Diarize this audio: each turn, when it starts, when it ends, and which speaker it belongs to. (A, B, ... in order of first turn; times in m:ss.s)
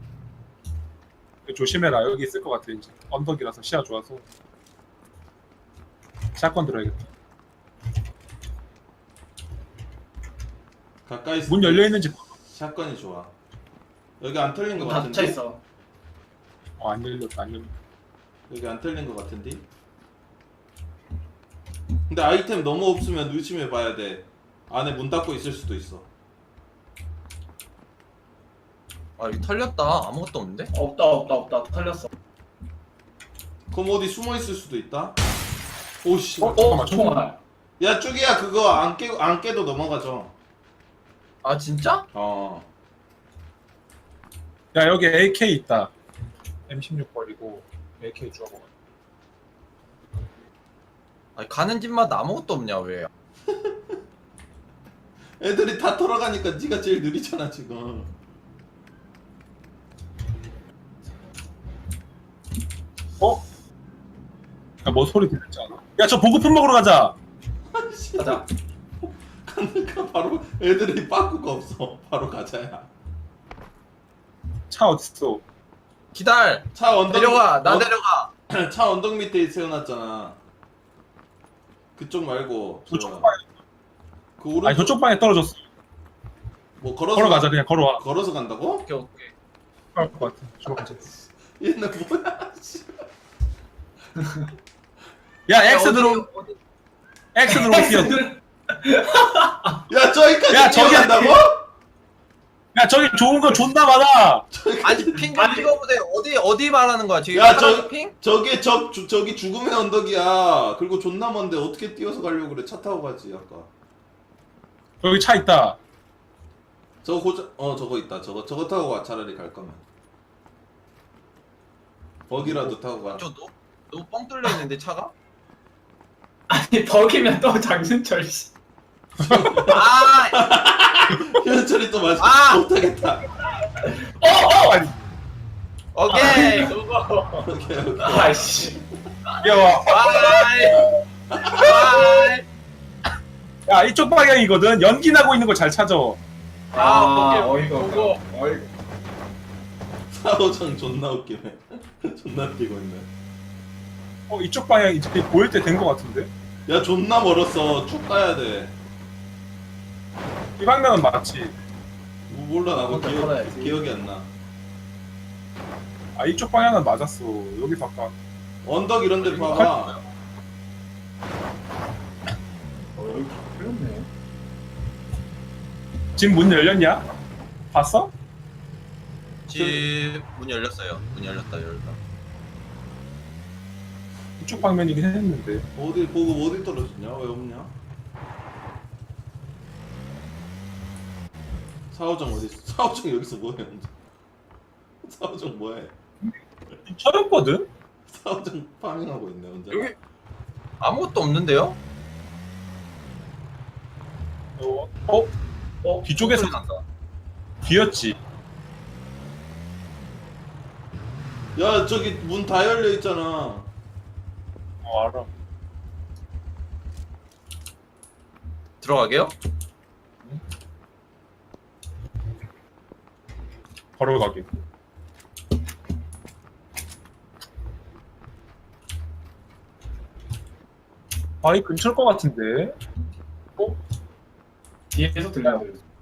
0:01.4-0:04.2 A
0:06.3-0:07.1 A
0:11.0-0:13.3 B
0:11.5-0:12.3 A
0:14.2-0:15.4 B
0:14.8-0:15.6 C
0:16.8-0:17.7 A
0:18.5-0:19.6 B
0:22.1-0:26.1 B
0:29.2-0:30.7 D
0:30.7-0:32.1 C
0:33.7-0:35.2 B
0:36.0-0:36.7 B
0:36.4-0:37.2 A
0:36.5-0:37.4 C
0:37.8-0:40.3 B
0:41.4-0:42.0 D
0:42.1-0:42.6 B
0:44.7-0:45.9 A
0:46.7-0:48.7 A
0:51.4-0:53.1 D
0:53.5-0:53.8 B
0:55.4-0:58.1 B
1:04.8-1:07.2 A
1:07.7-1:08.4 B
1:08.2-1:08.4 C
1:09.0-1:12.9 B
1:14.7-1:15.4 A
1:16.1-1:18.3 D
1:16.7-1:17.9 B
1:18.5-1:20.4 B
1:22.0-1:23.3 B
1:22.9-1:23.4 A
1:24.4-1:25.0 B
1:24.6-1:25.6 A
1:26.8-1:28.9 B
1:27.1-1:28.0 A
1:28.8-1:29.3 D
1:29.9-1:31.0 A
1:30.8-1:33.0 B
1:35.5-1:36.3 A
1:35.6-1:36.6 D
1:37.3-1:38.2 A
1:37.5-1:39.8 C
1:39.9-1:41.6 B
1:40.5-1:41.4 A
1:42.7-1:44.4 A
1:44.5-1:45.3 B
1:44.8-1:48.2 D
1:45.3-1:45.7 C
1:47.3-1:53.7 B
1:55.0-1:55.8 A
1:57.0-1:59.8 B
2:02.3-2:03.2 B
2:02.4-2:02.7 A
2:03.1-2:05.1 D
2:06.5-2:08.5 C
2:09.2-2:13.3 B
2:09.2-2:09.5 A
2:09.7-2:10.4 D
2:12.2-2:12.6 D
2:13.7-2:14.8 C
2:14.6-2:14.9 A
2:15.9-2:17.5 D
2:16.1-2:16.8 C
2:17.4-2:18.8 B
2:18.0-2:18.8 C
2:19.4-2:21.0 A
2:19.6-2:20.9 D
2:21.3-2:22.2 B
2:21.4-2:22.4 D
2:23.6-2:26.2 A
2:26.7-2:28.2 D
2:26.7-2:28.7 C
2:30.1-2:33.1 B
2:34.3-2:36.3 A
2:36.7-2:38.7 B
2:40.6-2:41.5 A
2:42.3-2:44.3 B
2:42.8-2:43.8 C
2:46.2-2:48.1 A
2:48.6-2:50.0 B
2:49.2-2:50.0 A
2:53.0-2:54.1 C
2:56.2-2:57.0 A
2:57.7-2:58.1 A
2:59.5-3:02.0 D
2:59.5-2:59.9 B
3:04.4-3:05.7 A
3:05.8-3:07.7 B
3:11.9-3:13.9 B
3:15.0-3:15.9 B
3:16.8-3:17.7 A
3:18.1-3:19.9 B
3:20.8-3:21.8 D
3:24.6-3:25.3 A
3:25.8-3:26.6 C
3:26.0-3:26.8 A
3:27.6-3:28.2 A
3:31.5-3:33.7 B
3:34.8-3:35.3 A
3:38.8-3:39.3 D
3:44.0-3:44.5 A
3:51.4-3:52.8 A
3:54.9-3:55.8 C